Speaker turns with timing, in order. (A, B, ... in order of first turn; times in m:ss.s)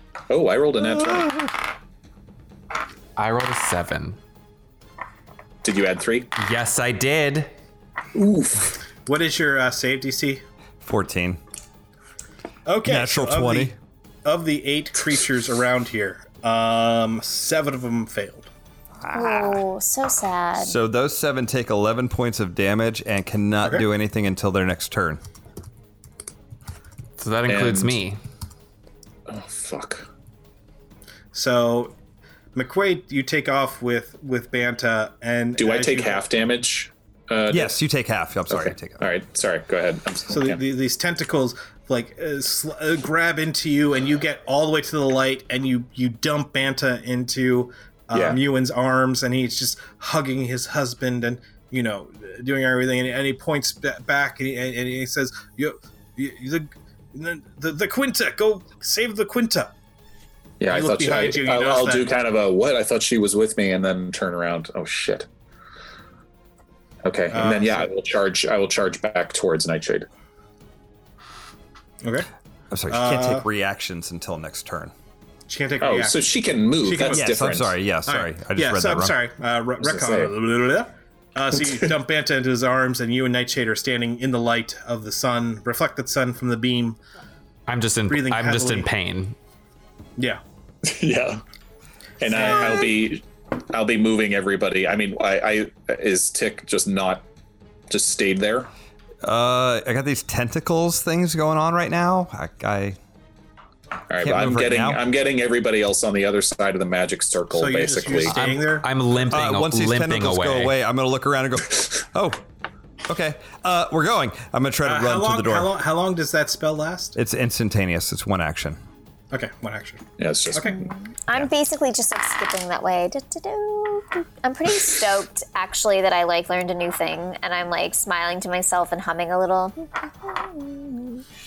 0:00.3-0:01.4 A
0:03.2-0:04.2 B
0:05.6-0:06.3 A
0:06.4-0:07.5 B
0:08.1-0:08.8 A
0:09.0-0:10.4 C
0:10.8-0:11.4 D
0:12.6-0:13.7 C
0:12.8-0:13.7 D
0:14.2-0:18.5 C
0:19.0-0:19.6 D
0:19.1-0:20.8 E
0:20.6-0:25.2 D
0:27.2-0:28.2 B
0:27.5-0:28.0 A
0:29.3-0:30.1 A
0:31.3-0:31.9 C
0:32.5-0:36.3 C
0:35.6-0:37.7 A
0:37.5-0:39.0 D
0:38.5-0:40.6 A
0:40.3-0:59.7 C
0:48.1-0:48.4 A
1:00.6-1:05.3 A
1:00.7-1:02.1 C
1:07.0-1:10.1 A
1:07.3-1:07.9 C
1:12.0-1:12.3 C
1:12.7-1:14.9 D
1:12.9-1:13.4 C
1:15.5-1:16.2 C
1:15.8-1:17.7 A
1:16.8-1:17.4 C
1:17.1-1:19.1 D
1:18.0-1:27.0 C
1:19.8-1:20.3 A
1:27.7-1:29.4 B
1:28.1-1:28.9 C
1:30.8-1:31.4 A
1:32.2-1:37.2 A
1:32.3-1:33.0 C
1:37.9-1:38.7 A
1:39.2-1:43.0 D
1:44.1-1:48.4 A
1:44.2-1:45.0 D
1:47.5-1:48.9 C
1:48.3-1:50.7 B
1:49.3-1:52.4 D
1:53.1-1:55.7 D
1:54.8-1:57.2 C
1:57.2-1:58.8 D
1:59.3-2:00.8 C
2:00.2-2:00.8 A
2:00.6-2:11.2 E